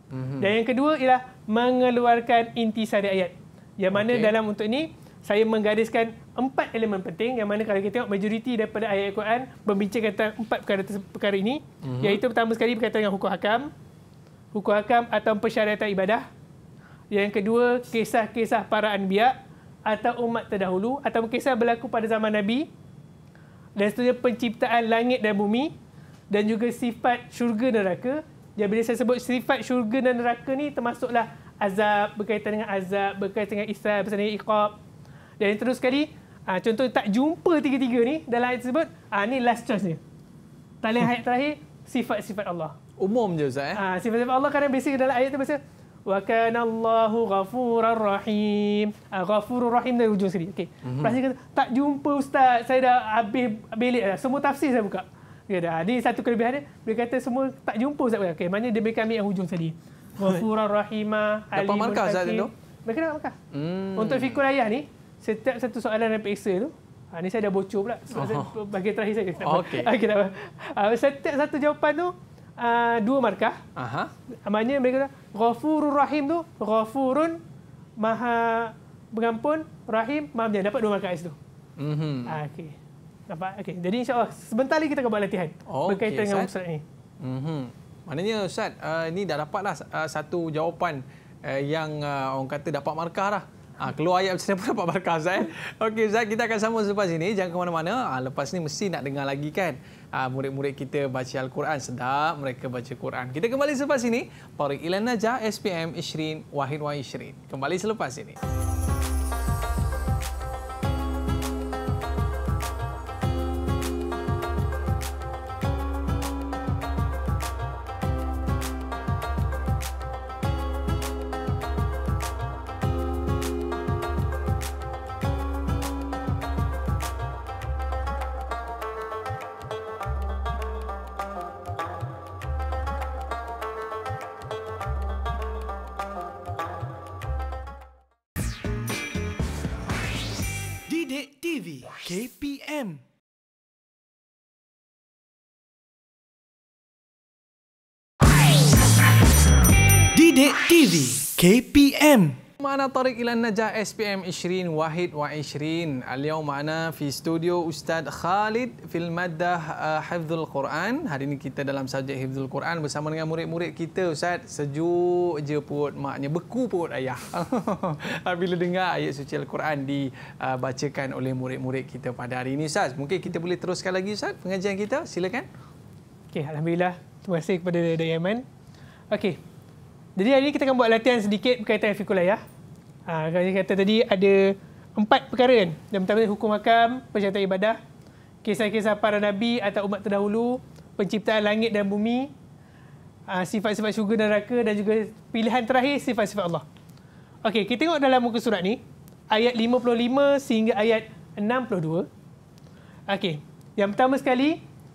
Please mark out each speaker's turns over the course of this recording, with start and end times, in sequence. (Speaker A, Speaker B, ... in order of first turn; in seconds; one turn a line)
Speaker A: 0.1-0.5
Speaker B: 0.4-13.7
Speaker A: 3.9-4.3
Speaker A: 11.8-12.2
Speaker B: 14.5-16.3
Speaker B: 17.1-19.4
Speaker B: 19.9-22.7
Speaker B: 23.8-25.7
Speaker B: 26.3-34.8
Speaker B: 35.4-40.0
Speaker B: 40.8-42.8
Speaker A: 43.0-43.8
Speaker B: 43.8-63.4
Speaker A: 50.8-51.2
Speaker A: 61.6-62.5
Speaker A: 63.5-64.4
Speaker B: 64.0-73.6
Speaker A: 68.1-68.5
Speaker A: 69.4-69.9
Speaker A: 73.8-74.1
Speaker B: 74.5-77.4
Speaker B: 78.0-81.4
Speaker A: 81.8-82.4
Speaker B: 82.3-82.8
Speaker B: 83.3-86.8
Speaker A: 85.7-86.5
Speaker A: 87.2-108.4
Speaker C: 140.9-143.0
Speaker C: 150.1-152.4
Speaker A: 152.6-175.5
Speaker B: 176.3-178.4
Speaker B: 179.1-179.4
Speaker B: 180.2-182.4
Speaker B: 183.1-187.8
Speaker B: 188.4-192.3
Speaker B: 193.3-196.7
Speaker B: 197.4-198.8
Speaker B: 199.3-202.1
Speaker B: 203.1-204.6